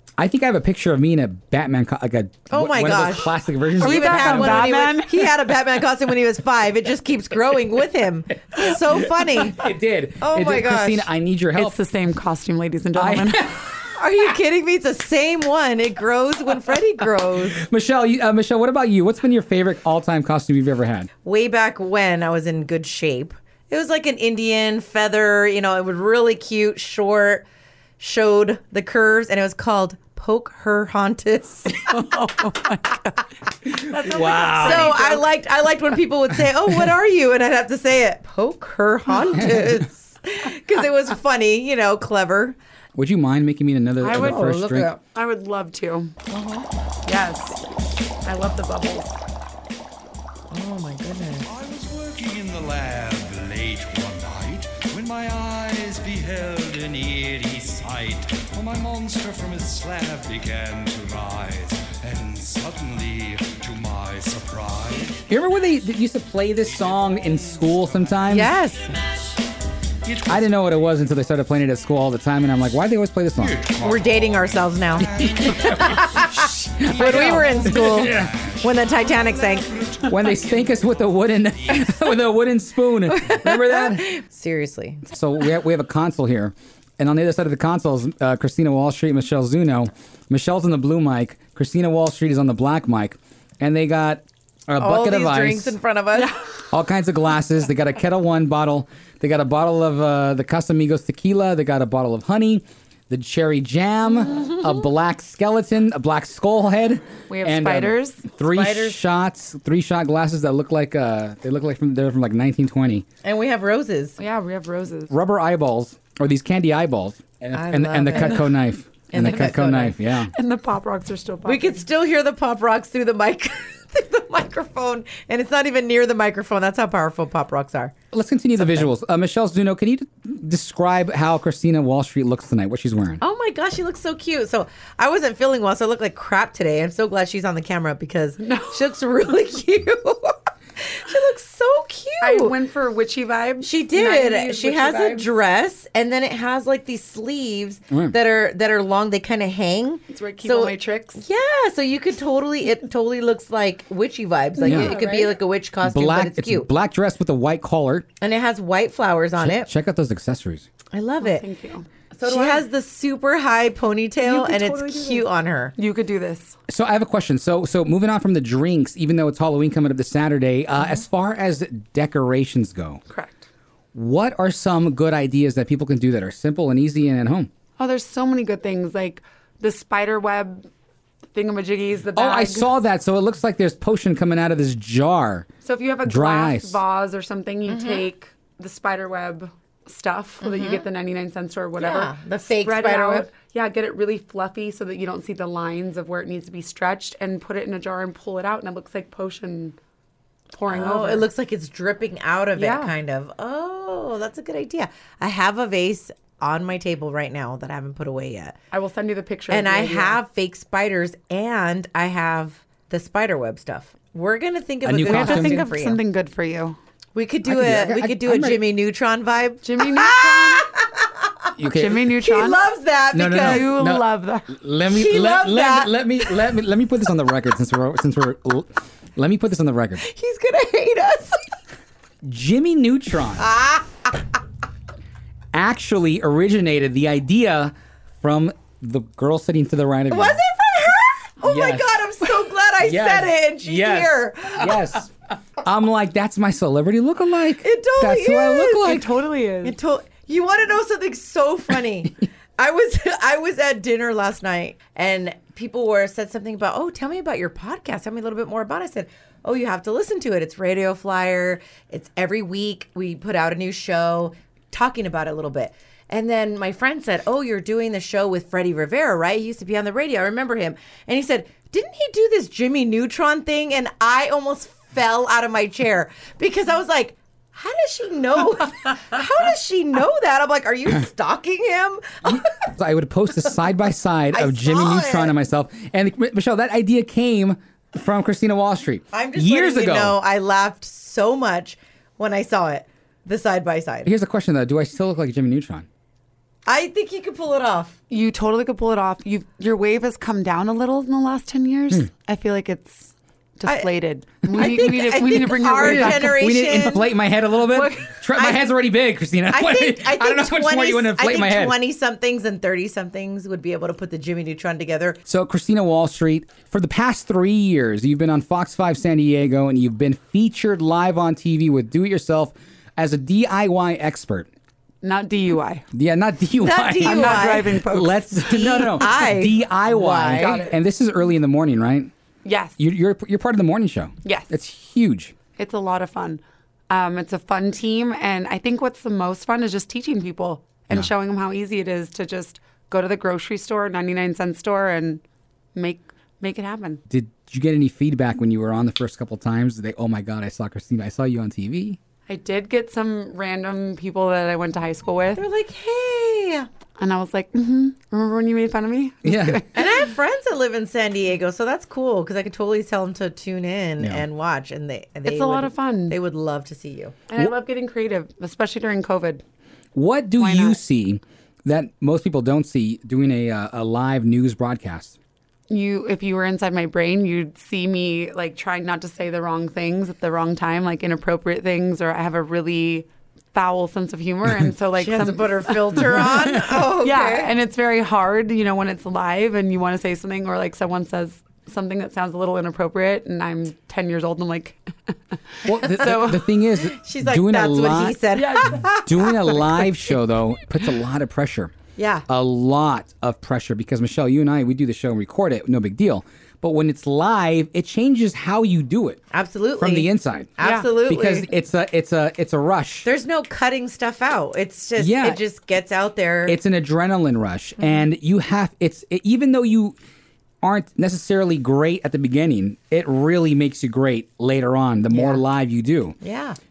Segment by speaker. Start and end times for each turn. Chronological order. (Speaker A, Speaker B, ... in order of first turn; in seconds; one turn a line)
Speaker A: 0.2-4.7
Speaker B: 2.5-11.1
Speaker C: 3.8-5.2
Speaker A: 8.6-11.8
Speaker C: 11.6-13.5
Speaker A: 12.9-13.7
Speaker B: 13.9-17.6
Speaker A: 17.5-21.1
Speaker B: 21.2-27.4
Speaker B: 28.0-31.9
Speaker C: 31.8-33.2
Speaker A: 33.6-34.9
Speaker C: 33.8-35.3
Speaker B: 34.5-42.6
Speaker A: 39.3-39.9
Speaker A: 43.0-44.9
Speaker C: 44.0-46.1
Speaker B: 46.3-46.7
Speaker C: 47.0-47.6
Speaker C: 48.2-49.1
Speaker B: 50.5-51.5
Speaker D: 51.4-65.2
Speaker A: 65.3-68.5
Speaker D: 66.6-68.5
Speaker B: 68.3-69.0
Speaker D: 70.0-70.9
Speaker A: 70.3-73.6
Speaker D: 73.4-81.9
Speaker B: 73.8-79.7
Speaker A: 75.2-78.3
Speaker A: 80.1-84.1
Speaker B: 83.1-85.1
Speaker A: 85.1-95.8
Speaker B: 94.8-96.3
Speaker A: 96.7-113.0
Speaker C: 107.3-109.0
Speaker B: 113.2-114.2
Speaker C: 114.2-115.1
Speaker A: 115.1-120.3
Speaker B: 117.5-118.5
Speaker B: 119.1-120.0
Speaker C: 120.3-121.8
Speaker B: 121.4-127.9
Speaker A: 128.1-133.2
Speaker B: 128.6-128.9
Speaker B: 133.2-142.6
Speaker C: 138.4-138.9
Speaker C: 142.2-145.3
Speaker B: 143.6-156.7
Speaker A: 147.9-148.2
Speaker C: 150.1-151.2
Speaker C: 154.6-155.4
Speaker A: 154.7-154.9
Speaker A: 155.8-158.1
Speaker B: 158.2-159.7
Speaker A: 159.4-160.7
Speaker B: 160.9-161.4
Speaker C: 161.2-162.6
Speaker B: 162.2-165.7
Speaker C: 164.2-165.2
Speaker C: 165.8-166.6
Speaker A: 166.7-173.0
Speaker C: 173.1-173.4
Speaker A: 173.9-177.5
Speaker C: 177.8-180.7
Speaker C: 181.3-182.7
Speaker A: 182.1-185.5
Speaker C: 185.6-199.8
Speaker A: 186.0-186.8
Speaker B: 187.7-188.1
Speaker B: 190.4-190.8
Speaker B: 191.8-193.3
Speaker C: 200.5-201.3
Speaker B: 200.7-208.5
Speaker C: 202.6-202.9
Speaker C: 208.7-210.2
Speaker B: 209.5-216.0
Speaker A: 214.8-215.6
Speaker C: 215.0-216.8
Speaker B: 217.1-221.3
Speaker A: 217.4-218.6
Speaker C: 219.6-220.7
Speaker A: 221.6-222.1
Speaker C: 221.7-222.6
Speaker B: 222.1-223.7
Speaker A: 223.1-230.0
Speaker C: 223.3-224.5
Speaker B: 224.9-226.3
Speaker B: 230.0-231.5
Speaker A: 232.2-233.5
Speaker B: 233.3-234.2
Speaker A: 235.5-240.4
Speaker B: 240.1-244.9
Speaker A: 241.4-242.0
Speaker A: 242.8-249.1
Speaker B: 247.6-249.0
Speaker C: 248.8-249.8
Speaker B: 249.6-282.5
Speaker A: 282.3-290.2
Speaker B: 284.3-285.3
Speaker B: 289.1-294.1
Speaker A: 294.0-295.9
Speaker B: 296.6-298.0
Speaker C: 298.1-306.4
Speaker B: 304.5-307.1
Speaker A: 305.8-311.7
Speaker C: 307.7-308.2
Speaker B: 308.3-308.6
Speaker B: 309.5-315.2
Speaker A: 315.3-324.5
Speaker C: 325.0-325.9
Speaker A: 325.9-332.1
Speaker B: 326.6-327.8
Speaker C: 327.0-328.3
Speaker B: 328.3-330.7
Speaker C: 330.3-330.8
Speaker C: 332.4-332.8
Speaker A: 332.8-335.3
Speaker C: 334.2-334.5
Speaker C: 335.6-345.2
Speaker C: 345.7-347.0
Speaker A: 347.1-352.0
Speaker C: 352.3-355.4
Speaker B: 355.4-356.7
Speaker C: 357.0-359.7
Speaker A: 359.2-359.6
Speaker B: 359.7-367.2
Speaker C: 365.2-366.2
Speaker C: 367.3-369.4
Speaker A: 369.9-375.1
Speaker C: 370.4-370.8
Speaker C: 375.7-396.4
Speaker B: 385.0-387.5
Speaker A: 386.0-386.3
Speaker A: 395.6-398.2
Speaker B: 396.0-400.1
Speaker C: 398.3-398.9
Speaker A: 399.0-401.7
Speaker B: 402.0-402.2
Speaker A: 402.3-409.2
Speaker B: 409.3-411.5
Speaker A: 409.8-410.5
Speaker C: 410.6-410.9
Speaker A: 411.1-413.1
Speaker B: 413.0-416.6
Speaker A: 415.0-415.4
Speaker A: 416.4-419.9
Speaker A: 420.6-426.1
Speaker B: 425.1-425.4
Speaker B: 426.2-426.6